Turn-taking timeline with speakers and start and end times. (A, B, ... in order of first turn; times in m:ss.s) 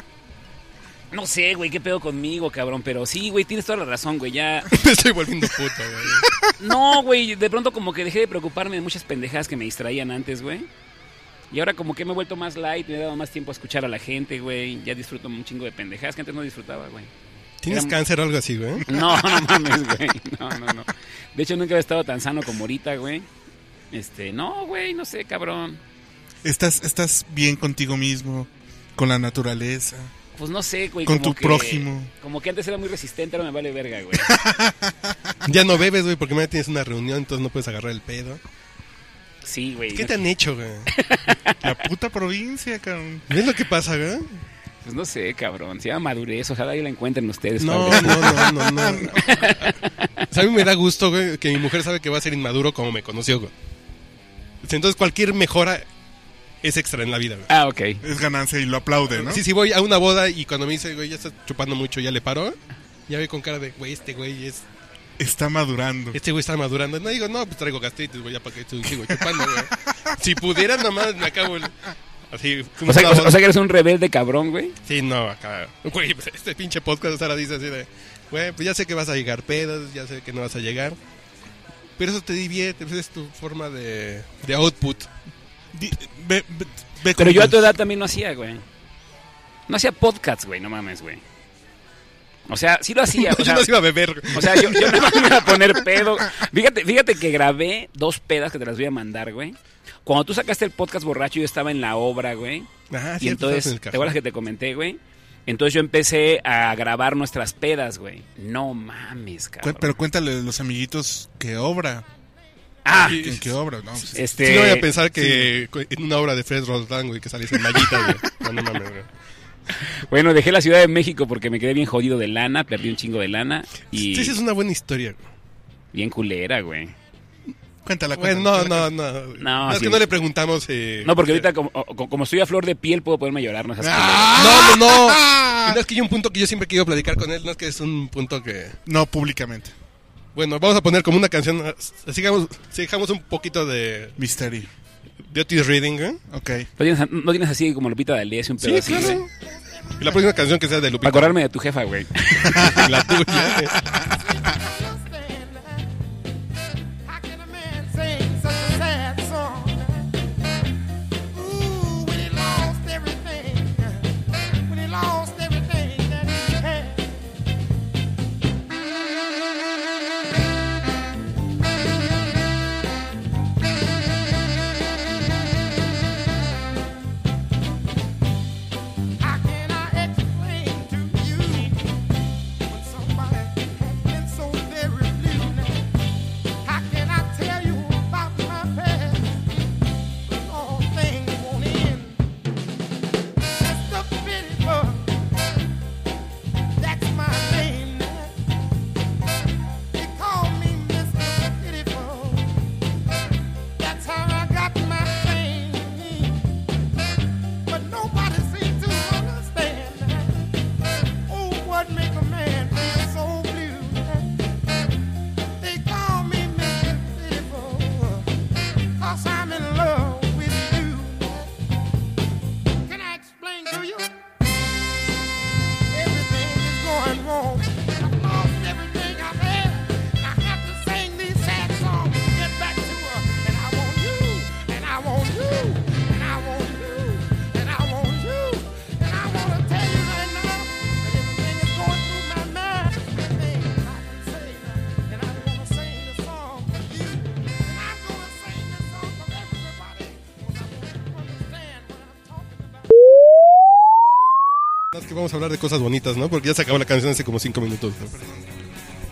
0:01.1-0:04.7 A
0:04.7-0:06.3 B
0:06.5-0:10.7 A
0:11.5-0:17.1 A
0:17.6-0:18.9 B
0:17.7-0:17.9 A
0:18.9-0:23.3 A
0:23.9-0:25.8 A
0:26.4-0:30.1 C
0:30.4-0:34.3 A
0:31.0-0:32.1 C
0:34.1-0:35.2 C
0:35.4-0:38.4 B
0:39.4-0:40.2 A
0:39.9-0:40.9 B
0:40.9-0:41.7 A
0:41.6-0:43.3 C
0:43.3-0:44.4 B
0:44.8-0:49.9 A
0:47.6-0:49.7 B
0:47.9-0:49.3 C
0:50.3-0:53.5 B
0:54.6-0:55.8 B
0:56.6-0:57.5 B
0:57.5-0:58.0 A
0:58.0-0:59.4 C
0:59.1-1:02.6 B
1:03.1-1:04.6 B
1:05.2-1:06.2 C
1:06.1-1:13.4 B
1:12.8-1:14.8 A
1:14.8-1:21.0 B
1:22.0-1:25.1 B
1:25.7-1:27.7 C
1:27.2-1:28.6 A
1:29.7-1:31.2 A
1:32.5-1:33.7 A
1:33.1-1:35.5 B
1:34.3-1:50.0 A
1:42.9-1:44.1 B
1:49.6-1:52.0 C
1:52.8-1:53.3 A
1:53.0-1:53.4 B
1:53.0-1:54.4 C
1:54.0-1:54.9 A
1:54.4-1:59.1 B
1:55.2-1:55.5 C
1:59.8-2:04.4 A
2:03.9-2:05.3 B
2:05.9-2:06.9 A
2:07.8-2:08.9 C
2:08.2-2:11.4 B
2:09.4-2:10.0 A
2:11.0-2:14.8 A
2:13.8-2:15.8 C
2:14.3-2:18.8 B
2:18.8-2:19.7 C
2:20.3-2:24.2 B
2:24.2-2:24.7 C
2:25.2-2:26.2 B
2:26.3-2:26.7 C
2:26.8-2:29.2 A
2:28.6-2:29.3 B
2:29.6-2:30.0 D
2:30.0-2:31.4 B
2:31.0-2:32.8 A
2:32.5-2:33.8 B
2:32.5-2:34.0 C
2:33.9-2:35.9 D
2:37.0-2:40.2 D
2:41.3-2:47.2 D
2:59.2-3:02.0 D
3:02.6-3:05.9 D
3:06.6-3:09.5 D
3:10.2-3:12.2 D
3:13.4-3:15.2 D
3:16.8-3:18.4 D
3:19.9-3:22.6 D
3:23.8-3:26.4 D
3:27.6-3:30.6 D
3:31.2-3:34.4 D
3:35.6-3:38.3 D
3:39.0-3:41.5 D
3:42.8-3:44.2 D
3:45.9-4:12.8 D
4:14.9-4:18.1 B
4:18.1-4:18.6 C